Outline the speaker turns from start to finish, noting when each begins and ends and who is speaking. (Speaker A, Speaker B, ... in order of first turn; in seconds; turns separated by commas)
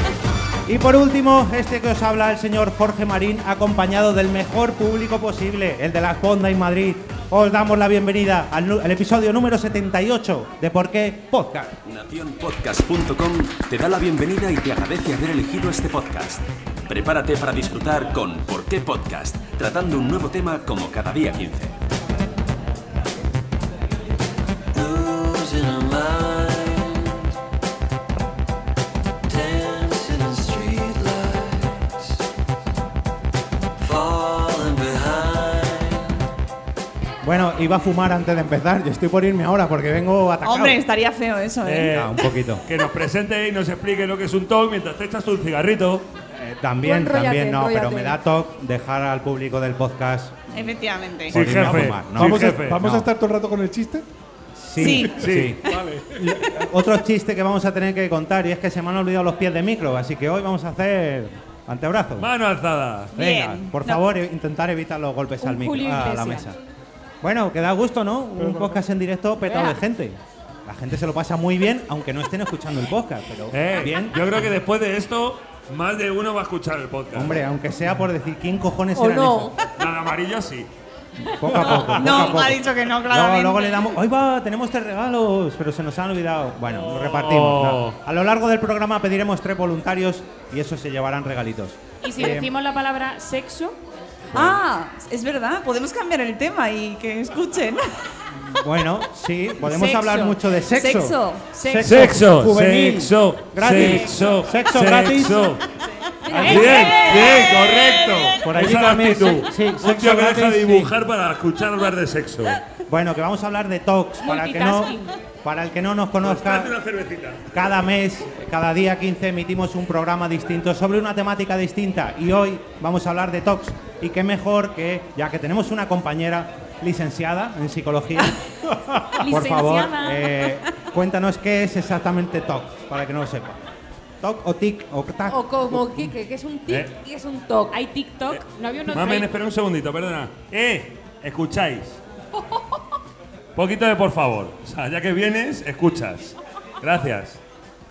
Speaker A: 0.7-11.8, Speaker B: 11.8-21.7, Speaker B: 24.7-27.2, Speaker B: 29.3-31.9, Speaker B: 33.8-36.1, Speaker A: 37.2-40.8, Speaker C: 40.4-42.1, Speaker D: 41.6-46.1, Speaker A: 41.9-42.6, Speaker A: 46.3-50.7, Speaker E: 46.8-48.2, Speaker C: 50.5-51.4, Speaker D: 51.3-52.8, Speaker A: 51.3-53.1, Speaker F: 51.5-54.0, Speaker A: 54.6-55.6, Speaker C: 54.8-55.8, Speaker D: 55.1-55.6, Speaker F: 55.6-56.4, Speaker A: 56.2-62.3, Speaker D: 62.2-63.1, Speaker C: 63.2-64.0, Speaker A: 63.2-66.6, Speaker G: 65.4-66.5, Speaker A: 67.2-74.2, Speaker F: 68.4-68.8, Speaker G: 69.5-69.8, Speaker D: 73.5-77.4, Speaker A: 77.1-79.6, Speaker E: 79.0-79.5, Speaker D: 79.8-80.7, Speaker A: 81.3-92.5, Speaker D: 81.4-82.4, Speaker C: 81.6-84.0, Speaker D: 86.7-88.0, Speaker G: 92.0-93.8, Speaker A: 94.3-94.6, Speaker C: 94.4-97.8, Speaker A: 98.3-105.6, Speaker G: 99.6-100.4, Speaker C: 100.7-101.5, Speaker G: 101.5-102.1, Speaker D: 101.8-105.7, Speaker E: 106.3-106.9, Speaker A: 106.3-107.5, Speaker G: 106.3-106.9, Speaker D: 106.4-112.6, Speaker C: 106.7-108.4, Speaker A: 108.4-110.9, Speaker A: 112.9-116.8, Speaker G: 114.2-115.2, Speaker D: 116.2-117.6, Speaker A: 117.5-128.4, Speaker F: 128.8-129.1, Speaker G: 129.2-130.5, Speaker A: 129.2-133.6, Speaker A: 134.2-136.1, Speaker E: 135.3-137.8, Speaker G: 137.7-139.3, Speaker D: 138.9-142.0, Speaker D: 143.6-147.4